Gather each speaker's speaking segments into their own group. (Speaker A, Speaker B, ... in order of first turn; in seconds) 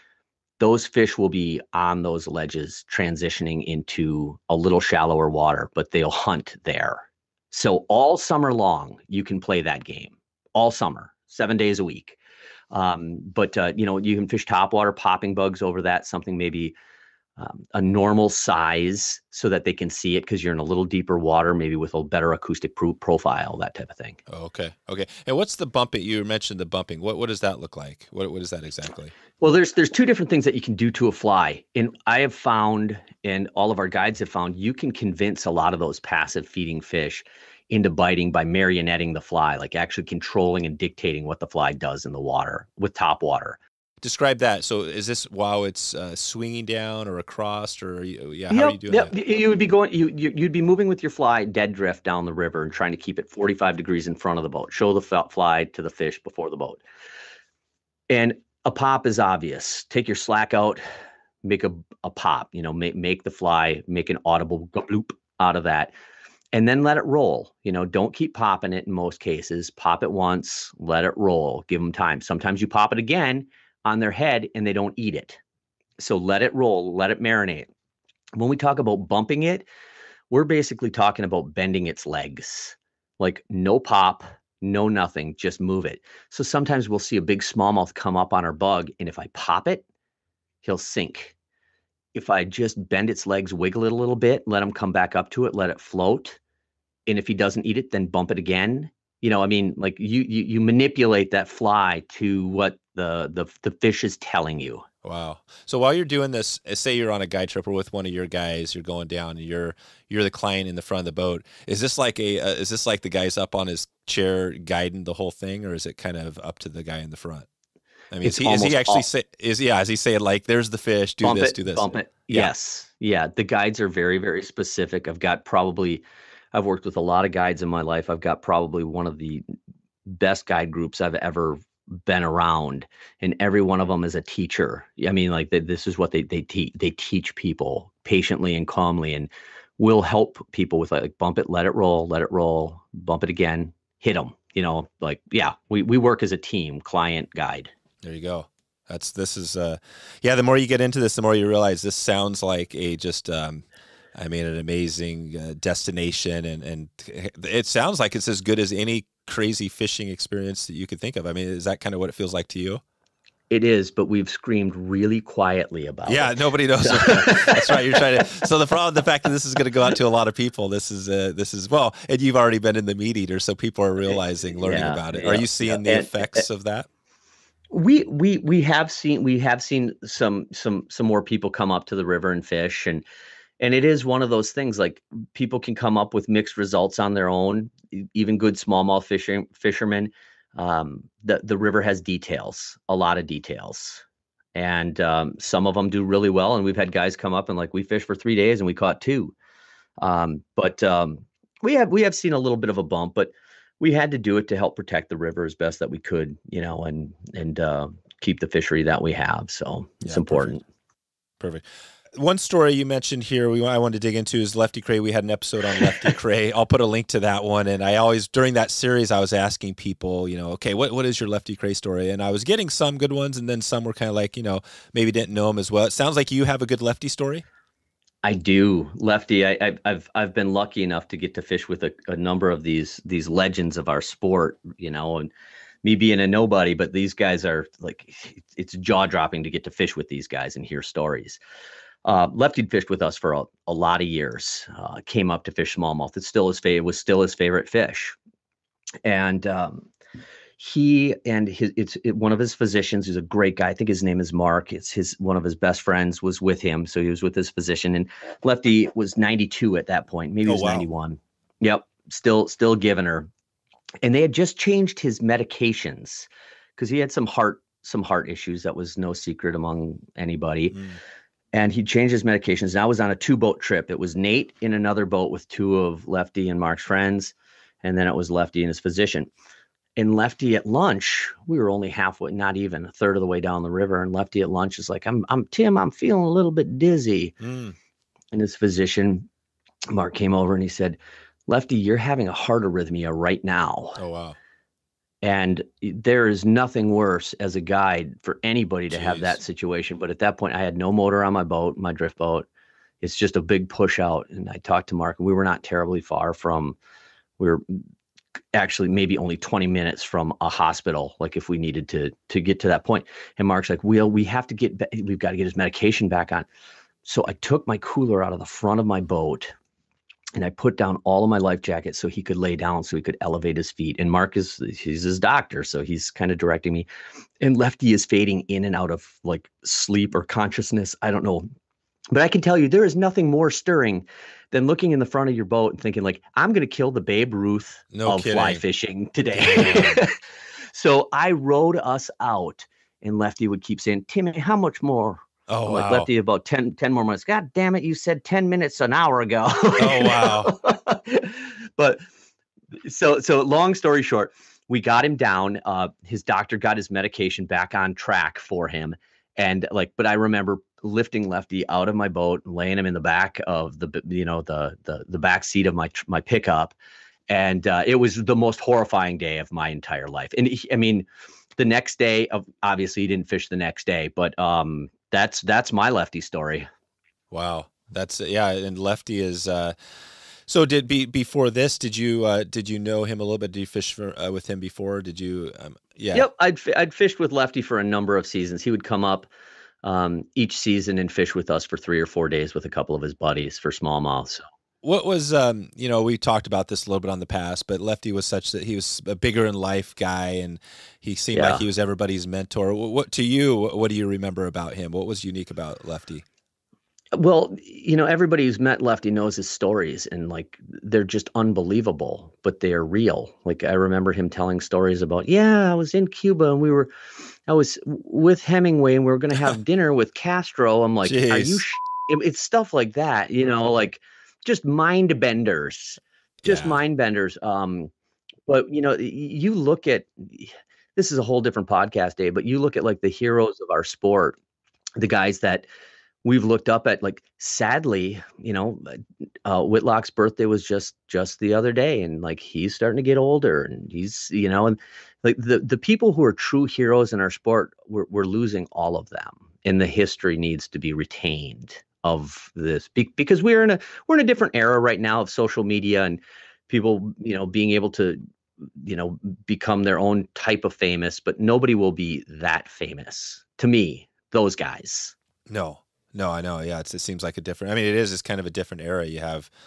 Speaker A: 0.6-12.2, 12.7-16.8, 17.4-24.2, 29.4-43.6, 48.5-56.8, 58.1-60.8, 61.4-65.9, 66.5-75.4, 76.0-77.7, 78.3-79.7, 80.3-89.8, 90.6-91.3, 92.1-96.4, 97.1-104.8, 118.2-119.0, 121.2-129.4, 130.1-147.7, 163.5-168.2, 174.1-176.5, 177.7-183.0, 183.6-194.0, 194.5-199.3, 200.0-210.6, 228.2-235.3, 235.8-241.4, 242.0-248.2, 249.0-249.9, 250.6-263.3, 264.0-270.8, 271.5-279.3, 280.0-287.3, 288.3-289.3, 289.9-294.0, 295.2-302.5, 303.0-306.8, 307.4-307.8, 308.5-316.5, 317.0-319.5, 320.4-326.9, 327.4-331.4, 332.1-340.1, 340.7-352.0, 352.8-366.8, 367.3-371.1, 371.6-376.7, 386.1-389.3, 389.8-394.4, 401.3-401.6, 407.1-416.9, 417.5-427.9, 428.5-434.4, 435.0-435.7, 436.2-458.2, 458.8-465.1
Speaker B: 24.3-29.1, 44.0-49.1, 105.0-117.5, 118.1-122.5, 148.0-162.8, 166.1-176.9, 210.0-210.6, 211.4-227.4, 260.4-260.9, 270.7-271.0, 287.4-287.8, 294.0-294.4, 298.9-299.4, 337.9-338.6, 339.3-340.0, 345.5-346.1, 349.8-350.5, 377.3-379.7, 380.5-386.3, 394.8-406.2, 421.0-421.6, 426.4-426.8, 465.5-469.5